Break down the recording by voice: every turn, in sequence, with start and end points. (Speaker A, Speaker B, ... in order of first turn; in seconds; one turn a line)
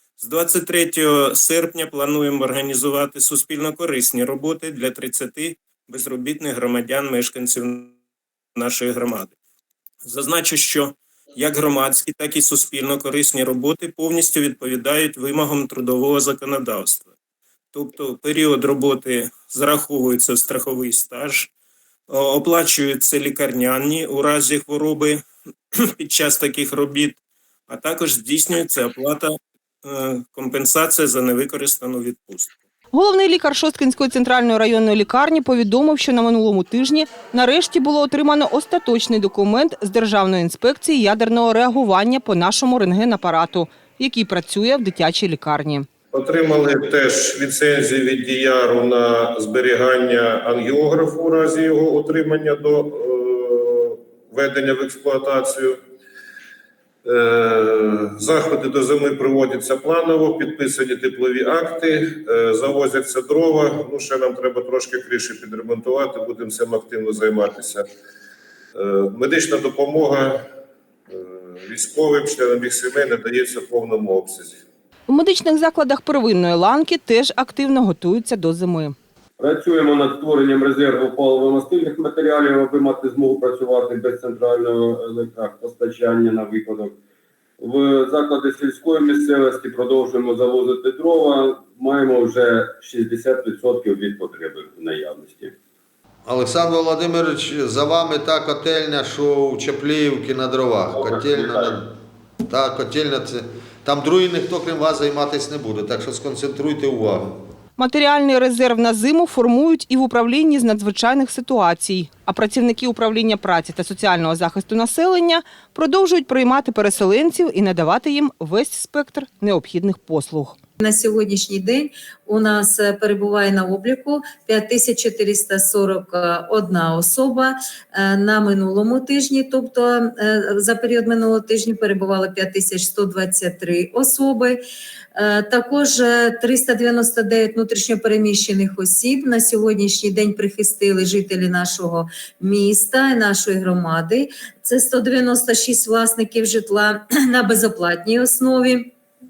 Speaker A: 0.2-8.0
Speaker A: 8.6-9.3
Speaker A: 10.0-17.1
Speaker A: 17.7-21.5
Speaker A: 22.1-25.2
Speaker A: 26.0-29.3
Speaker A: 29.8-32.5
Speaker B: 32.9-45.9
Speaker C: 46.1-55.8
Speaker C: 57.0-67.8
Speaker C: 68.8-70.4
Speaker C: 71.1-74.6
Speaker B: 75.1-79.0
Speaker D: 79.4-87.0
Speaker D: 87.6-95.5
Speaker E: 96.2-101.9
Speaker D: 100.9-101.8
Speaker E: 102.5-107.4
Speaker B: 107.8-120.5
Speaker F: 120.8-134.6
Speaker F: 135.2-148.9